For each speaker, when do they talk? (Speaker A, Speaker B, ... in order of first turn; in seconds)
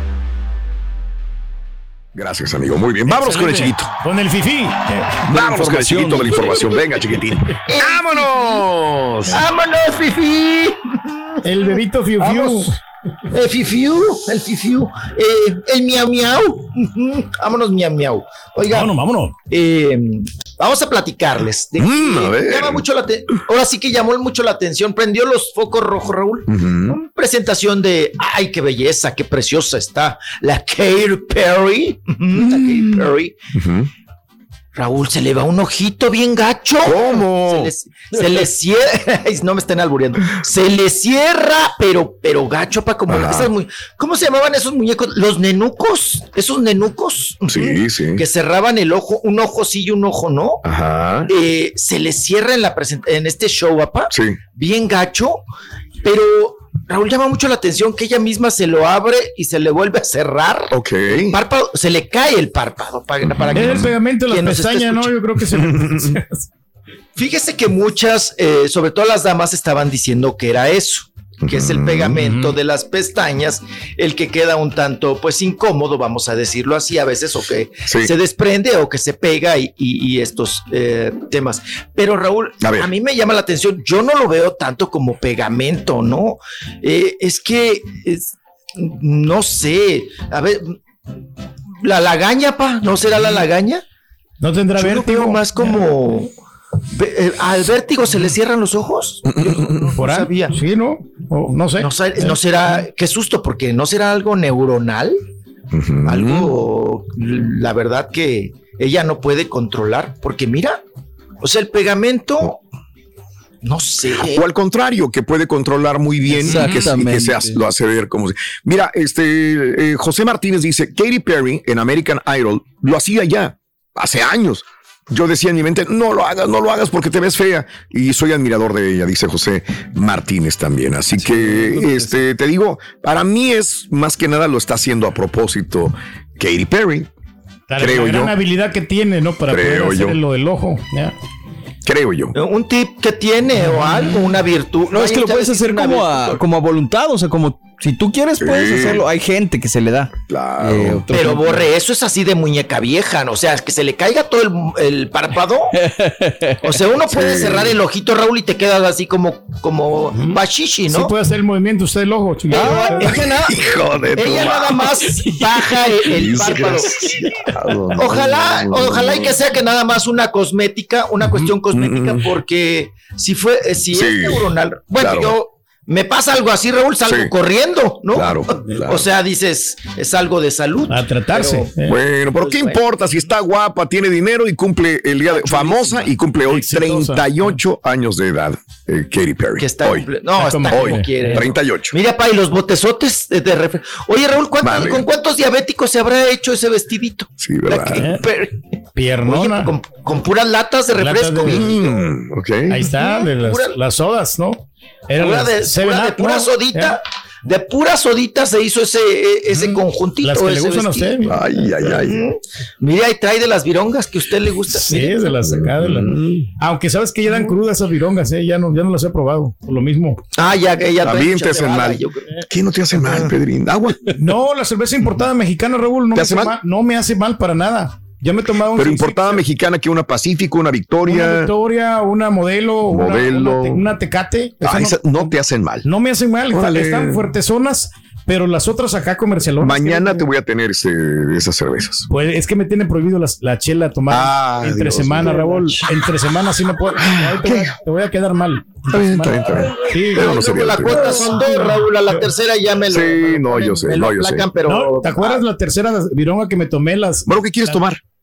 Speaker A: 2.1-3.9, 5.3-9.4, 21.8-22.8, 26.5-27.0, 33.5-33.9, 36.8-37.7, 43.1-43.5, 47.5-48.2, 50.6-51.3, 54.1-54.4, 60.7-61.3, 63.2-63.9, 65.6-66.2, 71.4-72.2, 82.6-82.9, 99.3-100.0, 105.7-106.5, 114.2-137.1, 137.8-138.3, 139.5-140.2, 141.8-142.3, 148.4-149.1, 150.3-151.1, 157.1-157.8, 163.2-164.9, 166.1-169.2, 171.3-172.3, 173.9-174.5, 175.0-175.3, 177.1-177.3, 178.1-179.0, 181.8-190.1, 190.7-191.9, 194.6-195.1, 197.4-198.1, 201.4-202.9, 211.2-212.2, 215.5-216.5, 221.0-224.2, 226.2-226.6, 228.8-231.5, 232.9-233.9, 234.6-235.8, 236.5-237.3, 239.6-242.1, 244.1-245.8, 247.0-247.8, 248.9-251.2, 252.9-254.5, 257.3-258.0
Speaker B: 3.0-5.0, 11.4-12.8, 18.7-19.3, 63.5-66.5, 72.2-72.5, 94.4-95.5, 100.0-102.4, 116.5-116.8, 131.2-132.1, 137.7-141.1, 143.6-144.3, 160.1-163.2, 180.9-182.0, 186.5-187.5, 190.3-191.4, 198.0-198.2, 199.0-199.8, 201.0-201.7, 202.7-206.9, 209.5-211.6, 214.7-220.2, 224.2-229.4, 231.1-235.3, 235.8-240.2, 242.1-250.4, 251.0-252.2, 254.6-257.8
Speaker C: 5.0-6.7, 116.3-117.6, 144.9-151.7, 155.8-156.6, 162.5-163.3
Speaker D: 7.7-8.6, 9.3-12.7, 13.3-33.4, 34.8-50.6, 51.3-55.4, 56.0-65.1, 67.2-90.8, 91.8-93.8, 94.7-96.3, 96.9-100.6, 101.8-105.2, 106.0-110.8, 111.4-112.6, 113.6-114.5, 142.3-146.4, 151.1-155.8, 156.6-161.1, 162.5-167.2, 167.9-181.8, 182.3-182.8, 185.3-186.1, 189.6-198.7, 199.2-202.1, 202.9-203.8, 205.2-215.3, 220.3-222.4, 223.0-223.3, 250.1-255.4